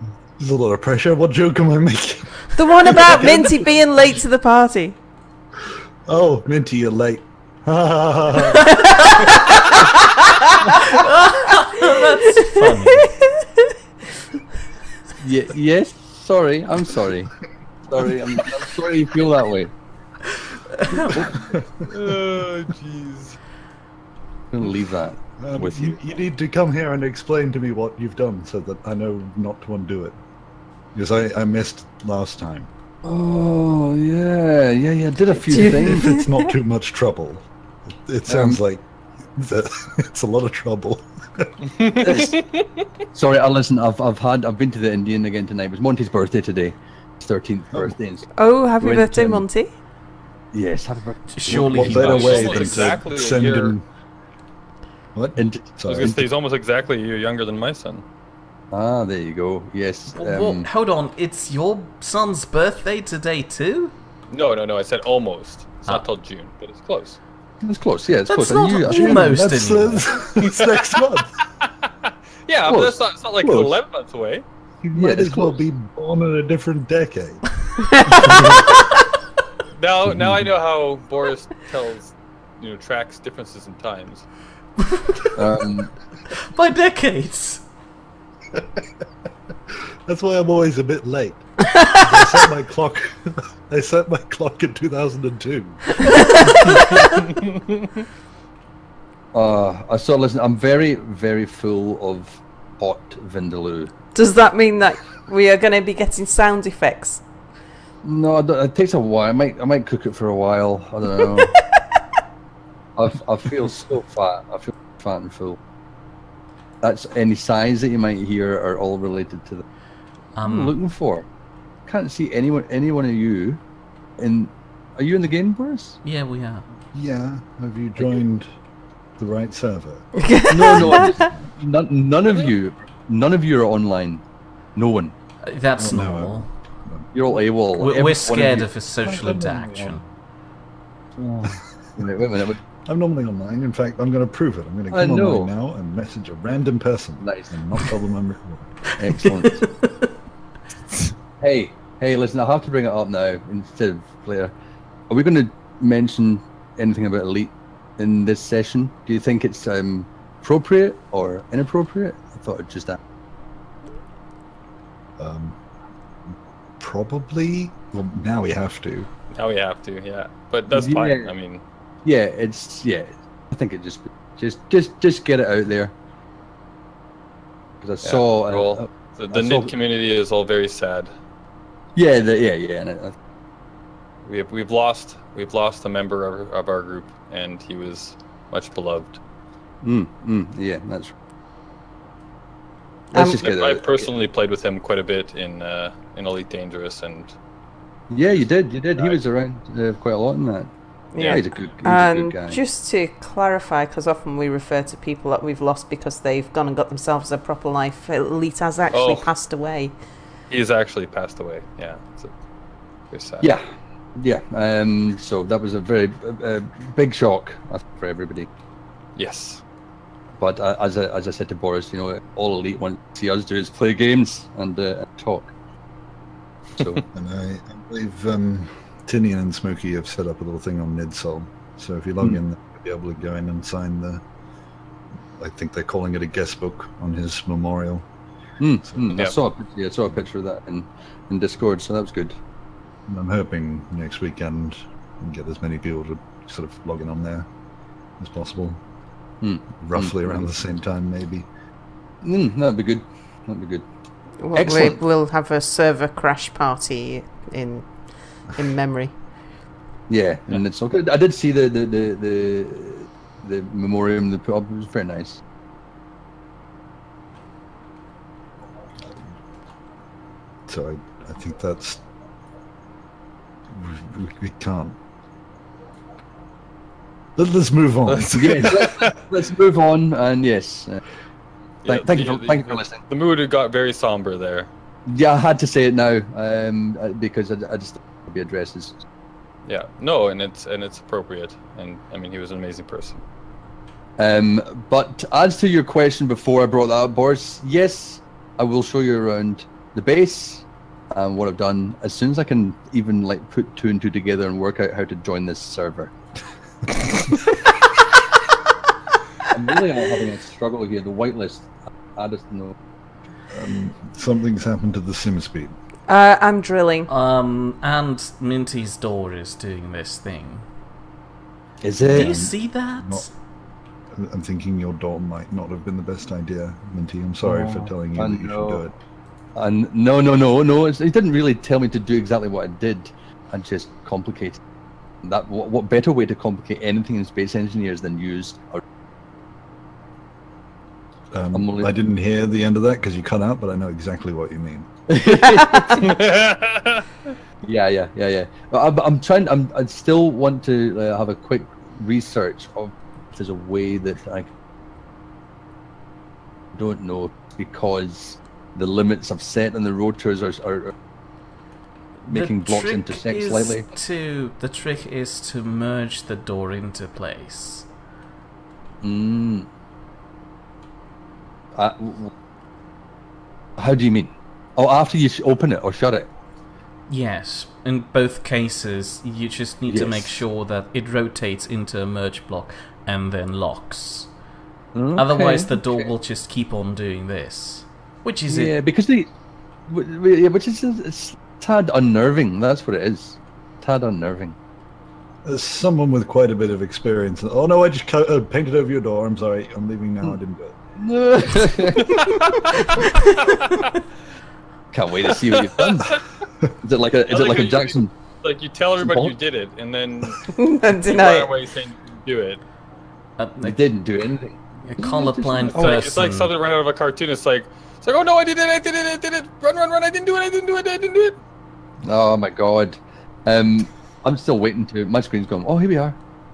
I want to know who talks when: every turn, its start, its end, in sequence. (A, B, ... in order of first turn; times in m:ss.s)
0:00.4-0:03.7 A
0:02.6-0:05.0 B
0:06.0-0:08.8 A
0:08.6-0:10.9 B
0:10.9-0:13.1 C
0:11.9-0:13.7 B
0:15.2-0:17.3 D
0:17.9-0:19.7 D
0:20.3-0:21.2 C
0:21.0-0:22.2 A
0:21.8-0:23.4 E
0:24.5-0:26.0 D
0:25.4-0:30.2 A
0:30.9-0:32.7 A
0:33.0-0:36.2 D
0:35.5-0:36.4 B
0:35.8-0:38.8 A
0:38.3-0:38.6 D
0:39.3-0:41.5 A
0:41.7-0:42.7 E
0:42.0-0:42.4 D
0:43.1-0:48.3 D
0:48.4-0:49.7 B
0:48.8-0:49.4 D
0:50.5-0:52.3 D
0:51.3-0:52.9 C
0:51.5-0:53.8 A
0:51.9-0:53.8 E
0:55.1-0:56.2 A
0:55.4-0:56.2 D
0:55.9-0:58.0 E
0:58.7-1:00.7 D
1:00.1-1:03.9 C
1:04.3-1:07.2 E
1:07.6-1:09.2 D
1:08.3-1:10.0 C
1:08.8-1:11.3 A
1:10.4-1:11.0 E
1:12.0-1:14.4 E
1:12.7-1:13.7 D
1:14.8-1:17.4 A
1:14.9-1:15.6 D
1:17.8-1:18.9 B
1:19.8-1:24.3 E
1:20.1-1:20.5 A
1:24.8-1:25.4 C
1:25.4-1:25.9 D
1:26.3-1:27.6 C
1:28.5-1:28.8 A
1:30.0-1:36.2 A
1:31.8-1:32.2 B
1:36.0-1:37.4 B
1:39.3-1:43.9 D
1:44.1-1:47.2 B
1:48.0-1:51.5 D
1:51.3-1:51.6 B
1:53.0-1:55.6 D
1:56.8-1:59.6 D
2:00.4-2:00.7 C
2:00.4-2:01.2 D
2:01.9-2:03.6 D
2:04.2-2:06.0 D
2:06.0-2:06.6 C
2:06.9-2:08.5 A
2:09.2-2:10.1 A
2:10.2-2:11.3 B
2:10.5-2:14.2 D
2:10.7-2:11.5 A
2:14.7-2:15.1 D
2:15.4-2:16.5 C
2:15.8-2:17.1 A
2:17.1-2:18.7 D
2:17.7-2:20.0 C
2:19.0-2:20.0 A
2:21.2-2:22.6 D
2:22.8-2:28.8 A
2:24.9-2:25.5 D
2:27.2-2:27.5 D
2:29.0-2:29.6 D
2:29.1-2:29.9 C
2:31.4-2:34.5 D
2:35.1-2:43.0 D
2:45.2-2:45.6 A
2:46.3-2:49.1 A
2:49.3-2:51.6 E
2:50.7-2:51.3 D
2:52.0-2:55.9 D
2:57.8-2:59.7 D
2:58.0-3:01.1 E
3:02.0-3:03.1 D
3:04.2-3:09.2 E
3:09.8-3:11.1 D
3:13.1-3:14.1 D
3:13.1-3:13.5 B
3:13.2-3:17.3 E
3:18.1-3:20.7 D
3:18.9-3:19.2 E
3:21.1-3:30.0 B
3:21.2-3:21.4 E
3:21.2-3:22.6 D
3:28.9-3:29.3 E
3:30.5-3:32.3 E
3:33.1-3:33.5 E
3:33.4-3:38.5 D
3:39.2-3:39.6 E
3:40.4-3:45.5 D
3:46.8-3:47.0 D
3:47.1-3:54.2 A
3:55.4-3:58.0 A
3:58.6-4:02.3 D
4:03.1-4:07.5 A
4:08.2-4:08.8 A
4:09.4-4:10.4 D
4:09.8-4:11.5 A
4:12.2-4:13.8 D
4:14.4-4:19.1 B
4:14.5-4:15.0 D
4:20.1-4:25.4 D
4:30.7-4:32.0 A
4:33.7-4:35.0 A
4:37.4-4:39.1 A
4:38.0-4:39.1 E
4:38.3-4:41.0 D
4:41.8-4:44.7 E
4:41.8-4:43.0 D
4:45.1-4:49.0 D
4:49.6-4:53.2 E
4:54.2-5:06.1 D
5:09.5-5:12.7 D
5:13.5-5:15.7 A
5:16.1-5:17.1 B
5:17.1-5:20.6 C
5:21.8-5:22.5 D
5:22.0-5:23.3 A
5:22.1-5:23.3 C
5:24.1-5:28.9 A
5:27.4-5:28.8 D
5:29.6-5:34.6 D
5:35.2-5:38.8 D
5:41.3-5:44.9 A
5:41.5-5:41.9 D
5:45.1-5:46.1 D
5:45.6-5:46.1 B
5:45.9-5:47.1 E
5:47.6-5:54.5 D
5:56.7-6:00.9 D
6:02.2-6:07.9 C
6:02.3-6:03.8 D
6:09.0-6:09.7 D
6:11.7-6:12.3 D
6:13.8-6:16.3 D
6:17.1-6:24.3 C
6:19.9-6:20.3 D
6:24.9-6:26.1 D
6:25.1-6:28.7 C
6:28.5-6:29.3 D
6:29.9-6:34.5 D
6:35.4-6:40.8 A
6:41.0-6:42.4 D
6:42.0-6:43.9 E
6:44.9-6:46.1 D
6:45.3-6:46.2 E
6:46.8-6:48.1 D
6:47.3-6:52.6 E
6:49.0-6:49.3 D
6:50.6-6:51.5 B
6:53.4-6:53.8 C
6:53.6-6:56.1 D
6:54.8-6:56.5 C
6:55.7-7:01.4 E
7:02.0-7:06.2 D